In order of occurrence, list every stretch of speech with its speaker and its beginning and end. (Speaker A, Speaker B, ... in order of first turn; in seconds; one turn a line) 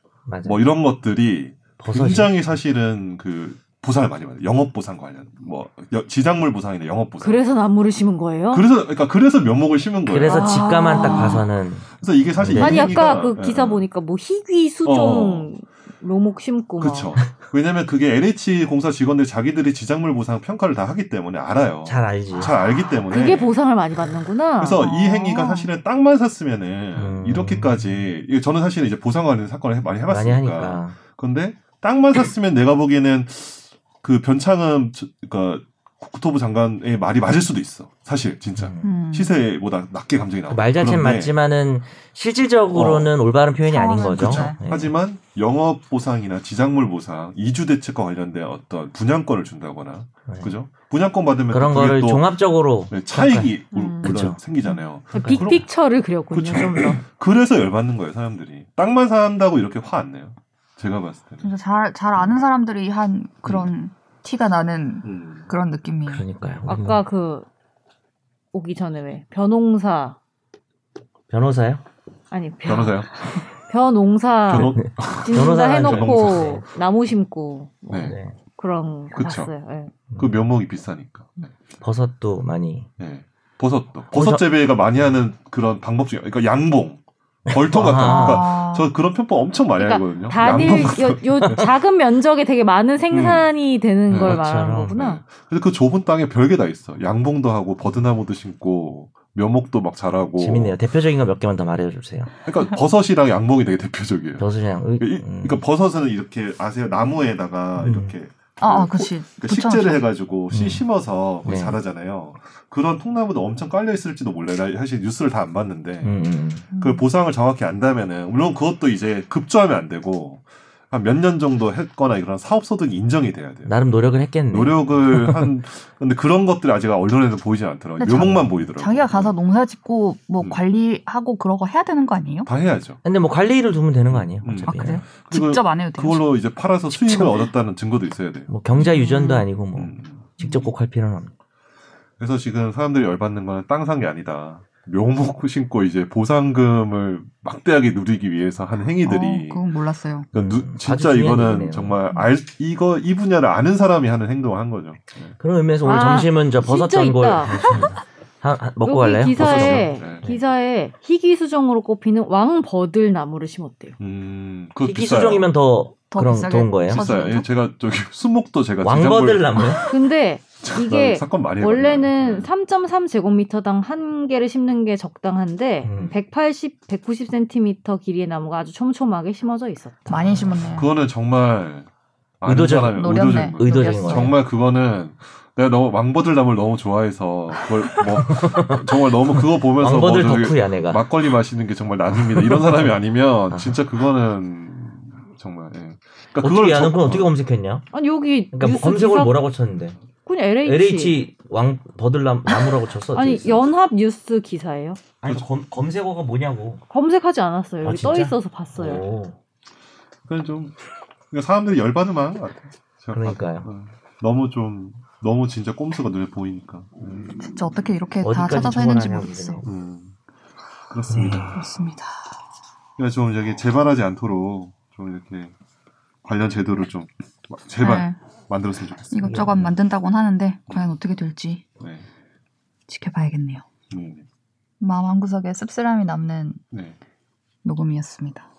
Speaker A: 0.3-0.6
Speaker B: 0.4-7.4
Speaker A: 1.8-2.3
Speaker C: 7.2-8.7
Speaker B: 8.5-11.4
Speaker A: 10.1-13.2
Speaker C: 10.3-11.4
Speaker D: 10.9-11.4
Speaker B: 12.0-13.8
Speaker C: 12.6-17.2
Speaker B: 14.8-15.5
Speaker B: 16.8-23.6
Speaker A: 21.9-22.5
Speaker C: 23.1-24.8
Speaker B: 24.6-41.3
Speaker D: 24.8-25.7
Speaker A: 26.9-28.0
Speaker A: 30.1-31.0
Speaker A: 38.6-38.9
Speaker D: 38.8-39.4
Speaker A: 40.5-44.9
Speaker B: 42.7-43.1
Speaker D: 43.7-44.6
Speaker B: 44.1-52.3
Speaker A: 50.3-50.5
Speaker A: 51.5-54.4
Speaker B: 52.9-55.7
Speaker C: 53.7-54.1
Speaker C: 55.1-57.0
Speaker A: 55.1-55.6
Speaker B: 56.3-61.5
Speaker D: 61.4-66.2
Speaker B: 65.0-65.5
Speaker A: 66.1-67.0
Speaker C: 66.7-67.5
Speaker C: 68.5-70.2
Speaker A: 71.3-71.8
Speaker C: 72.3-79.9
Speaker B: 72.7-73.4
Speaker B: 74.5-76.6
Speaker A: 74.5-76.7
Speaker B: 77.9-78.2
Speaker A: 78.1-78.3
Speaker B: 79.1-79.5
Speaker B: 80.1-81.5
Speaker A: 81.8-82.9
Speaker B: 83.0-91.7
Speaker A: 84.1-84.4
Speaker A: 87.5-88.5
Speaker D: 88.0-88.9
Speaker C: 89.8-95.2
Speaker B: 93.1-93.5
Speaker B: 94.1-100.8
Speaker A: 94.2-95.0
Speaker A: 100.4-102.3
Speaker B: 102.5-104.5
Speaker A: 104.4-105.6
Speaker B: 105.0-123.8
Speaker A: 107.8-108.1
Speaker D: 108.6-110.0
Speaker A: 110.5-110.8
Speaker A: 111.5-111.8
Speaker A: 116.0-116.7
Speaker D: 116.7-117.0
Speaker A: 123.7-125.5
Speaker B: 124.5-129.3
Speaker D: 128.0-132.5
Speaker B: 132.4-133.0
Speaker A: 133.0-135.0
Speaker B: 134.1-138.5
Speaker D: 134.6-136.3
Speaker D: 136.9-137.5
Speaker A: 138.5-141.3
Speaker D: 138.8-139.5
Speaker B: 139.8-140.3
Speaker D: 140.4-140.7
Speaker B: 142.2-149.7
Speaker D: 149.1-150.3
Speaker B: 150.3-155.4
Speaker A: 150.3-152.0
Speaker A: 155.4-160.4
Speaker C: 155.8-157.6
Speaker C: 158.8-163.9
Speaker B: 159.4-160.2
Speaker B: 164.0-165.5
Speaker A: 164.8-167.1
Speaker D: 166.1-167.5
Speaker B: 166.9-169.9
Speaker A: 168.8-169.9
Speaker C: 169.9-180.5
Speaker B: 170.6-172.5
Speaker A: 175.8-176.2
Speaker D: 180.1-180.9
Speaker B: 180.8-181.9
Speaker B: 182.4-197.3
Speaker A: 182.5-184.4
Speaker D: 182.9-184.3
Speaker A: 188.3-191.0
Speaker A: 192.3-192.6
Speaker A: 193.5-193.8
Speaker A: 196.4-197.9
Speaker C: 197.9-199.4
Speaker A: 198.5-200.0
Speaker C: 200.3-201.2
Speaker A: 200.6-203.7
Speaker C: 203.1-205.0
Speaker A: 205.2-206.8
Speaker C: 206.9-209.0
Speaker A: 207.8-209.4
Speaker B: 208.8-209.1
Speaker B: 210.3-210.8
Speaker B: 211.3-217.3
Speaker A: 213.1-213.7
Speaker D: 217.4-219.7
Speaker A: 218.2-219.7
Speaker B: 219.7-220.1
Speaker B: 220.9-221.7
Speaker D: 221.5-222.3
Speaker B: 223.0-225.5
Speaker B: 226.2-229.7
Speaker D: 227.8-228.2
Speaker D: 229.1-231.6
Speaker A: 229.2-229.6
Speaker B: 231.8-232.1
Speaker D: 232.9-233.6
Speaker B: 233.9-234.2
Speaker D: 234.8-236.6
Speaker B: 236.7-237.0
Speaker D: 237.6-238.5